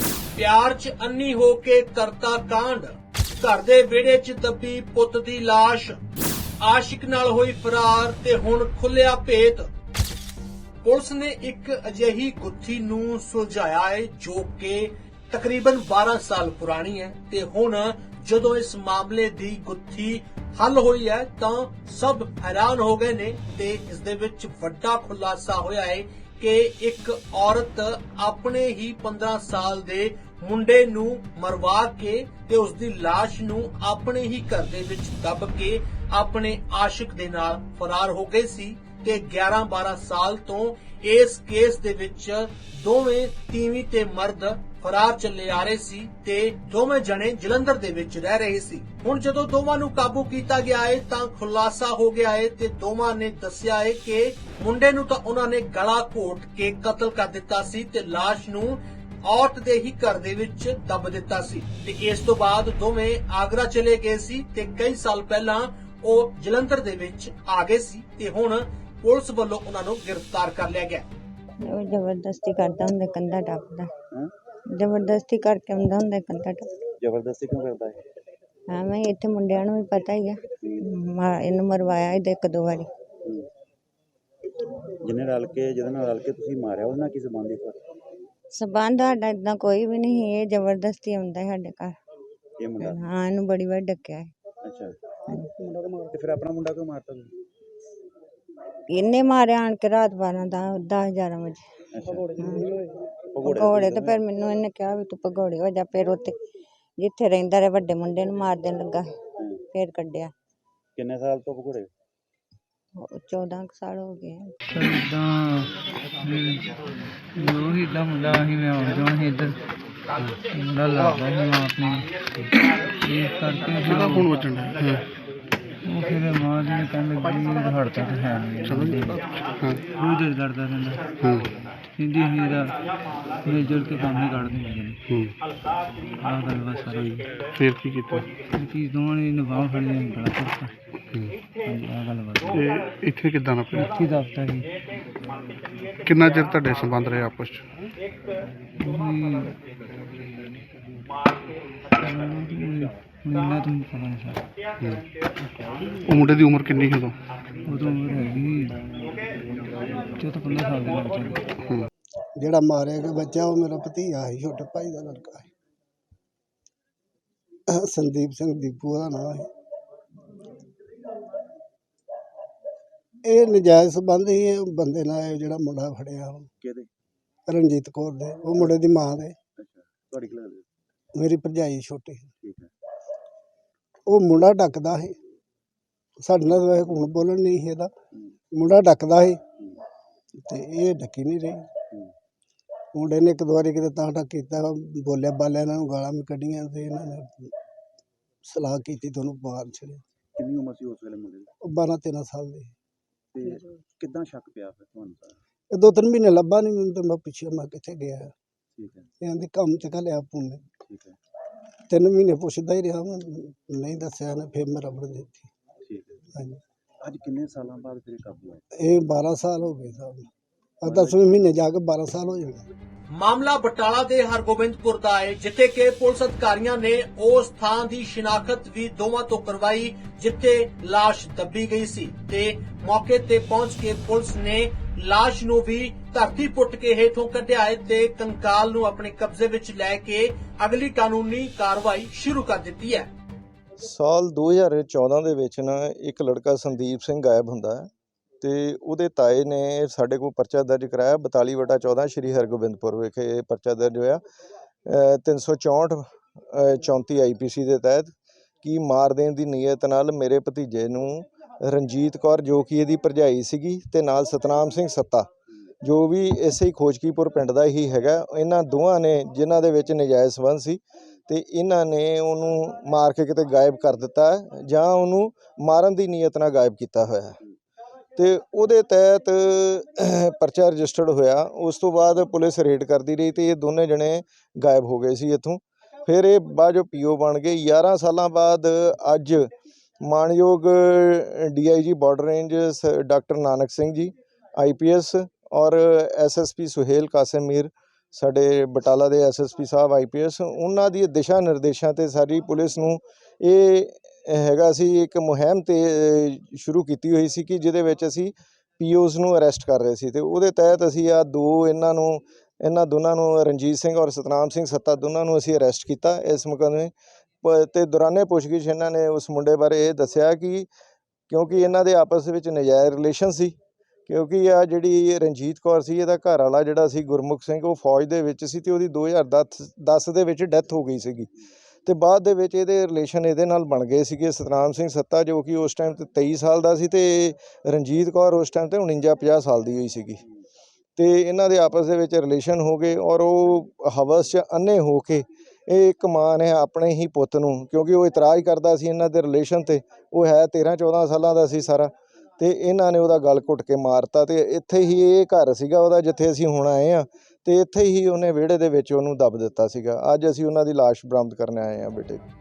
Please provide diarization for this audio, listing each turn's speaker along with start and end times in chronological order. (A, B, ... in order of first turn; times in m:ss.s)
0:00.4-0:06.0 A
0:06.6-0:09.7 A
0:10.8-1:11.1 A
1:11.7-1:13.9 B
1:14.8-1:16.7 B
1:17.0-1:18.0 C
1:18.7-1:20.4 B
1:20.6-1:20.9 C
1:21.0-1:22.9 B
1:25.0-1:27.8 C
1:28.5-1:32.0 B
1:32.6-1:33.1 C
1:33.1-1:34.3 B
1:34.6-1:35.0 C
1:36.1-1:37.3 C
1:38.9-1:41.6 B
1:41.9-1:42.4 C
1:43.3-1:44.2 C
1:43.5-1:46.4 B
1:47.0-1:49.1 B
1:49.7-1:50.3 B
1:51.0-1:51.9 C
1:53.0-1:54.5 B
1:54.7-1:55.7 D
1:56.2-1:56.7 D
1:57.4-1:59.6 D
2:00.5-2:02.1 D
2:03.0-2:04.3 D
2:03.8-2:05.0 E
2:05.9-2:09.2 D
2:08.7-2:09.0 E
2:10.0-2:11.0 D
2:11.2-2:11.5 E
2:12.0-2:12.8 D
2:13.4-2:15.0 D
2:15.1-2:15.4 E
2:16.2-2:17.2 D
2:17.1-2:18.3 E
2:18.5-2:20.7 D
2:21.6-2:22.6 D
2:22.5-2:23.9 E
2:23.7-2:24.7 D
2:26.1-2:27.7 E
2:28.8-2:29.5 D
2:32.0-2:34.4 D
2:36.0-2:37.2 E
2:37.7-2:38.8 D
2:40.2-2:41.4 D
2:42.4-2:45.5 F
2:47.7-2:49.5 F
2:53.2-2:56.5 F
2:56.6-2:56.9 C
2:57.5-2:59.4 F
2:59.6-3:00.6 C
3:01.2-3:02.3 F
3:02.4-3:02.7 C
3:04.1-3:05.2 F
3:06.2-3:07.9 F
3:08.5-3:09.4 F
3:09.5-3:09.8 C
3:10.4-3:11.6 F
3:12.9-3:17.5 F
3:18.4-3:20.0 F
3:20.4-3:21.5 C
3:21.6-3:22.7 F
3:23.3-3:25.4 C
3:25.7-3:28.3 F
3:28.8-3:29.1 C
3:29.2-3:30.7 F
3:30.8-3:31.2 C
3:31.9-3:35.5 F
3:35.8-3:36.2 C
3:36.3-3:36.6 F
3:37.0-3:38.6 C
3:38.8-3:40.3 F
3:40.8-3:41.4 C
3:40.8-3:42.6 F
3:43.1-4:03.1 A
4:03.8-4:07.9 G
4:08.4-4:14.2 G
4:14.9-4:25.3 G
4:25.8-4:37.4 G
4:38.2-4:49.5 G
4:50.0-5:16.9 G
5:17.4-5:20.7 G
5:21.3-5:23.6 G
5:24.1-5:31.3 G
5:31.9-5:40.2 G
5:41.0-6:02.2 G